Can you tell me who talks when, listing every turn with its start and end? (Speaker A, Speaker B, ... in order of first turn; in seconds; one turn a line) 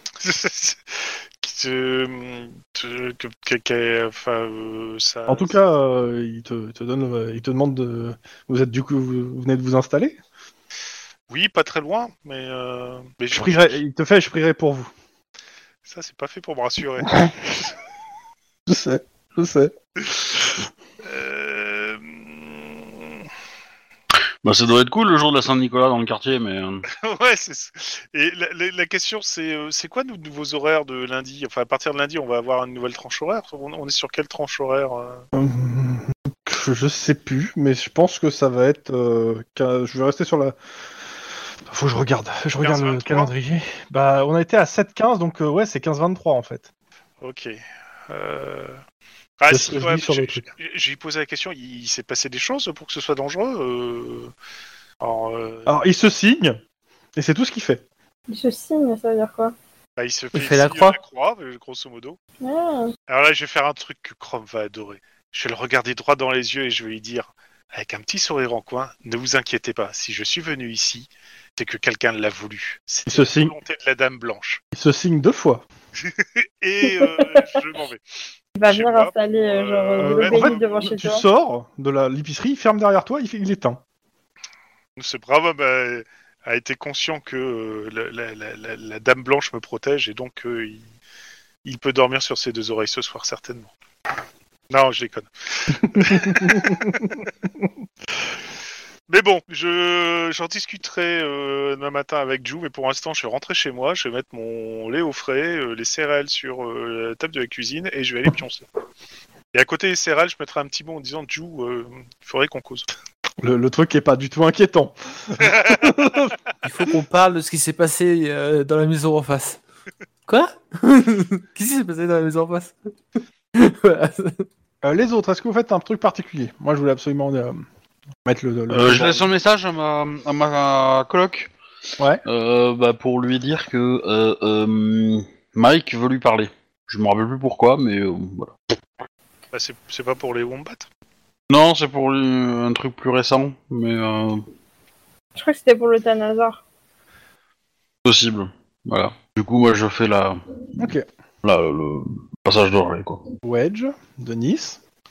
Speaker A: 0.2-5.5
Speaker B: 5.3-10.2
Speaker A: 11.3-13.8
Speaker B: 13.3-14.9
Speaker A: 15.8-17.7
Speaker B: 17.0-17.4
Speaker B: 18.7-19.7
Speaker A: 21.0-23.0
Speaker C: 24.4-26.9
Speaker A: 26.9-35.2
Speaker B: 35.3-40.5
Speaker B: 41.7-46.7
Speaker A: 42.6-43.3
Speaker A: 47.2-48.8
Speaker A: 49.4-54.3
Speaker B: 49.5-50.5
Speaker A: 55.0-55.8
Speaker B: 55.6-56.6
Speaker B: 57.1-57.8
Speaker D: 58.3-59.5
Speaker A: 60.0-62.2
Speaker E: 60.3-61.0
Speaker D: 62.4-62.9
Speaker A: 63.1-74.6
Speaker B: 73.1-73.5
Speaker B: 74.7-75.6
Speaker A: 76.0-78.0
Speaker D: 76.8-77.5
Speaker D: 78.6-81.2
Speaker A: 78.7-80.9
Speaker B: 80.0-83.8
Speaker A: 85.0-90.8
Speaker A: 91.6-93.7
Speaker A: 94.7-97.2
Speaker B: 95.9-97.0
Speaker A: 99.1-108.7
Speaker A: 109.5-112.9
Speaker B: 113.4-116.3
Speaker A: 115.4-115.9
Speaker E: 116.6-119.6
Speaker E: 120.3-122.7
Speaker E: 123.5-124.5
Speaker B: 124.8-127.6
Speaker B: 128.2-129.3
Speaker C: 128.7-131.5
Speaker C: 132.2-138.5
Speaker A: 139.5-140.8
Speaker C: 141.5-144.4
Speaker D: 145.3-146.6
Speaker C: 148.0-150.4
Speaker B: 150.8-151.1
Speaker C: 151.4-153.2
Speaker B: 153.4-154.8